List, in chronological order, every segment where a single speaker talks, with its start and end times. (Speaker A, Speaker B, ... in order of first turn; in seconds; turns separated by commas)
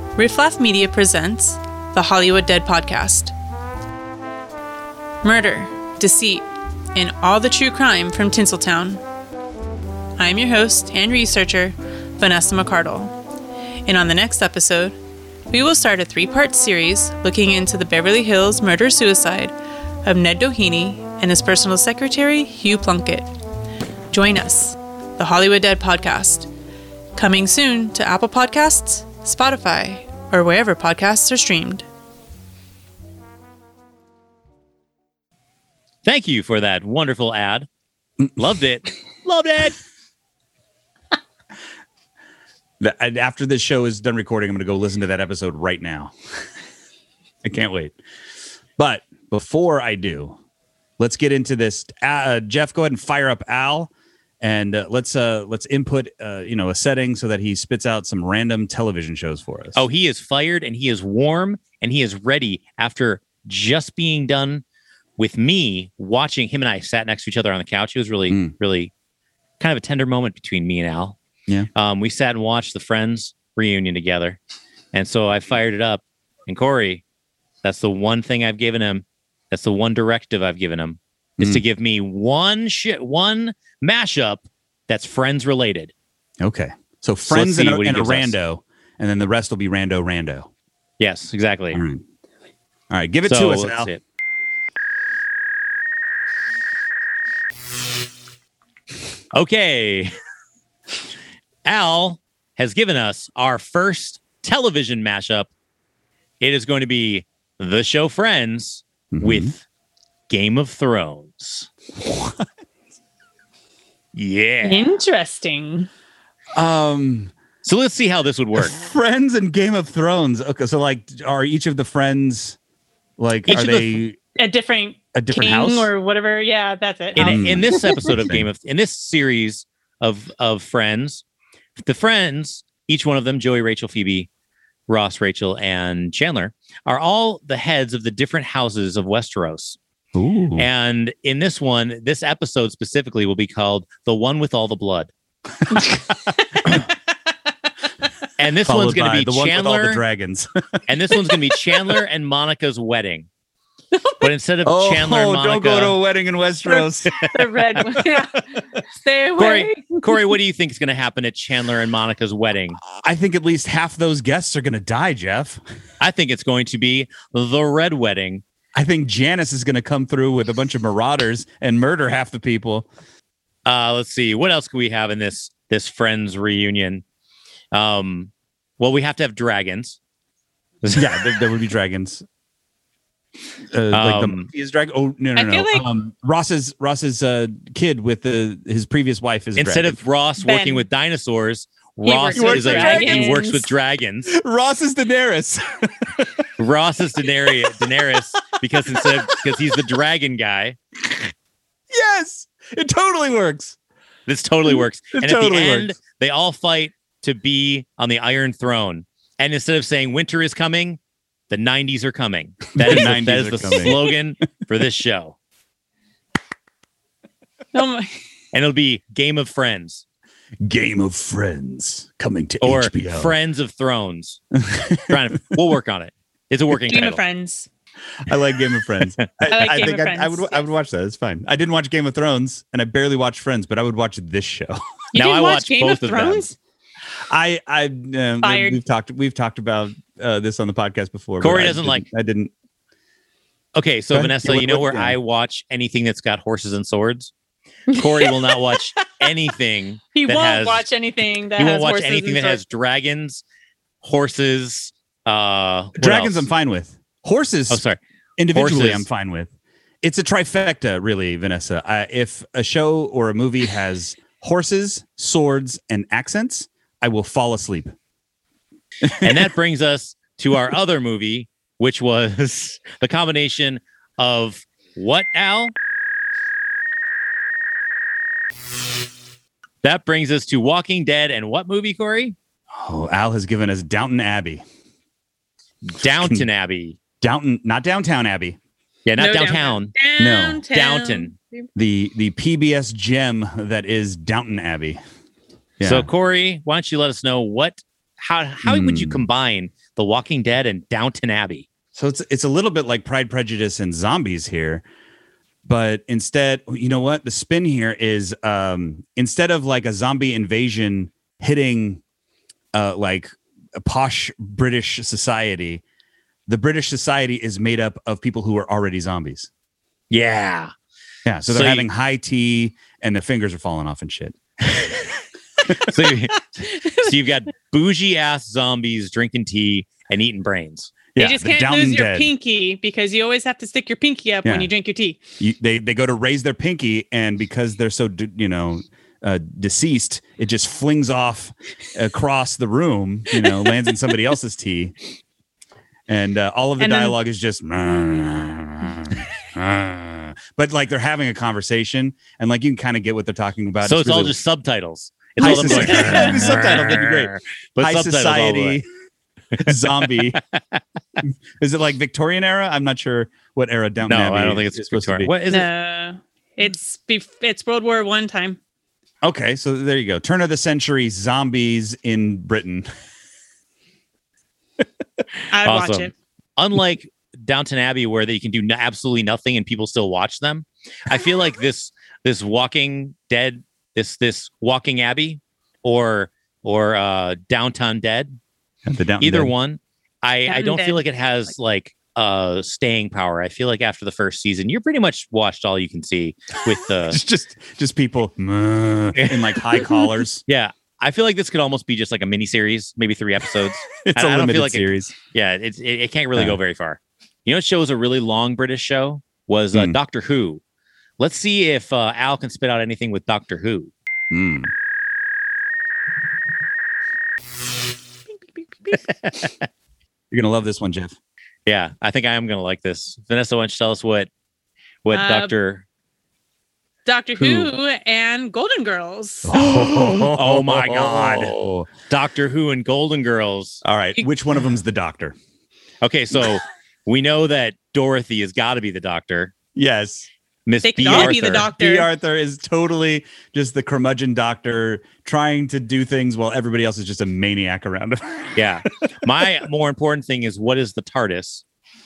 Speaker A: 0.2-3.3, Speaker A: 5.2-9.0, Speaker A: 10.2-13.1, Speaker A: 13.9-14.9, Speaker A: 15.5-19.5, Speaker A: 20.1-23.3, Speaker A: 24.1-26.5, Speaker A: 27.2-31.9, Speaker B: 36.0-37.7, Speaker B: 38.4-39.8, Speaker C: 42.8-46.1, Speaker C: 47.4-48.0, Speaker C: 48.8-50.4, Speaker C: 51.0-59.8, Speaker B: 59.8-64.6, Speaker B: 65.2-68.9, Speaker C: 68.3-68.5, Speaker B: 69.6-71.2, Speaker B: 71.8-74.4, Speaker B: 74.9-77.0, Speaker B: 77.6-85.9, Speaker C: 81.4-81.6, Speaker C: 86.4-90.5, Speaker B: 87.3-88.4, Speaker B: 91.0-91.8, Speaker C: 91.7-92.0, Speaker C: 92.9-93.9, Speaker B: 93.2-94.0, Speaker B: 99.3-100.1, Speaker B: 101.7-105.5, Speaker B: 106.4-109.6, Speaker C: 109.1-109.5, Speaker B: 110.3-111.7, Speaker C: 112.0-112.5, Speaker B: 114.1-114.9, Speaker A: 114.6-115.9, Speaker C: 116.5-117.3, Speaker B: 117.6-118.7, Speaker C: 118.6-122.6, Speaker C: 123.2-124.2, Speaker B: 123.5-124.0, Speaker A: 124.4-127.8, Speaker C: 125.1-125.9, Speaker B: 127.2-131.2, Speaker C: 127.2-128.5, Speaker B: 131.8-134.3, Speaker B: 134.9-139.8, Speaker C: 140.1-140.7, Speaker B: 140.6-145.1, Speaker C: 145.7-146.8, Speaker B: 148.4-150.0, Speaker C: 148.6-151.4, Speaker B: 150.9-153.3, Speaker A: 153.9-154.2, Speaker B: 154.2-156.0, Speaker C: 154.6-157.2, Speaker A: 156.7-160.2, Speaker C: 157.9-158.2, Speaker B: 159.4-162.8, Speaker C: 162.9-165.6, Speaker B: 166.0-168.4, Speaker C: 168.7-172.9, Speaker B: 173.7-177.0, Speaker B: 177.7-180.0, Speaker B: 180.8-181.3, Speaker C: 180.9-182.2, Speaker C: 183.7-190.0, Speaker B: 183.9-184.5, Speaker A: 185.3-185.9, Speaker B: 189.6-194.3, Speaker A: 190.4-190.8, Speaker A: 192.0-193.7, Speaker C: 192.3-193.4, Speaker C: 194.3-196.3, Speaker B: 196.6-200.8, Speaker C: 198.9-199.4, Speaker C: 201.9-203.8, Speaker B: 204.3-211.0, Speaker C: 205.1-205.9, Speaker B: 211.5-215.4, Speaker C: 212.8-214.1, Speaker A: 217.7-218.1, Speaker B: 218.5-220.0, Speaker C: 220.6-223.3, Speaker B: 222.6-224.4, Speaker C: 224.6-225.2, Speaker B: 225.1-227.2, Speaker A: 226.9-227.7, Speaker C: 228.2-234.8, Speaker A: 229.5-230.7, Speaker A: 235.1-236.6, Speaker B: 235.2-236.5, Speaker C: 237.3-242.5, Speaker A: 238.4-238.8, Speaker B: 241.4-242.1, Speaker B: 243.8-247.3, Speaker C: 244.1-245.2, Speaker A: 247.9-249.3, Speaker B: 247.9-250.9, Speaker A: 250.1-252.6, Speaker B: 251.6-253.4, Speaker B: 254.0-256.5, Speaker C: 256.0-257.8, Speaker B: 257.7-258.0, Speaker C: 258.4-259.5, Speaker B: 258.5-259.1, Speaker C: 260.0-267.9, Speaker C: 269.0-269.5, Speaker B: 269.1-275.7, Speaker B: 279.8-282.4, Speaker C: 282.7-284.6, Speaker B: 285.8-287.0, Speaker C: 286.2-286.5, Speaker C: 287.2-288.6, Speaker B: 289.1-289.9, Speaker A: 289.2-291.7, Speaker C: 290.2-290.7, Speaker B: 290.7-291.3, Speaker C: 291.8-295.0, Speaker C: 295.8-296.1, Speaker B: 295.8-301.7, Speaker C: 298.6-299.3, Speaker C: 301.9-304.8, Speaker C: 305.6-312.0, Speaker C: 312.7-315.8, Speaker C: 316.5-319.5, Speaker B: 320.1-320.7, Speaker C: 321.3-324.4, Speaker B: 321.5-321.9, Speaker B: 325.7-330.9, Speaker C: 331.1-332.3, Speaker A: 331.2-335.2, Speaker C: 334.4-334.7, Speaker C: 335.4-344.9, Speaker C: 346.1-354.4, Speaker A: 346.8-347.2, Speaker B: 353.8-358.8, Speaker C: 355.4-358.9, Speaker A: 355.4-356.8, Speaker B: 359.5-360.8, Speaker C: 359.6-360.4, Speaker C: 361.2-365.3, Speaker B: 364.1-365.7, Speaker A: 365.5-368.6, Speaker C: 369.2-372.9, Speaker A: 375.5-376.1, Speaker B: 375.6-388.4, Speaker C: 388.9-389.5, Speaker B: 389.2-397.2, Speaker A: 390.5-391.0, Speaker C: 397.1-400.4, Speaker B: 399.1-399.7, Speaker B: 400.5-410.6, Speaker C: 404.1-405.1, Speaker B: 411.2-413.9, Speaker C: 414.3-414.7, Speaker B: 418.9-419.6, Speaker C: 420.3-421.1, Speaker B: 421.7-424.3, Speaker B: 425.1-425.9, Speaker A: 425.1-425.5, Speaker A: 427.1-429.6, Speaker B: 427.4-427.7, Speaker C: 429.5-431.9, Speaker B: 429.6-431.6, Speaker B: 432.1-433.8, Speaker C: 433.8-435.4, Speaker B: 436.0-439.5, Speaker C: 439.8-440.3, Speaker B: 440.7-441.7, Speaker A: 440.8-442.1, Speaker C: 441.0-448.6, Speaker B: 448.6-451.6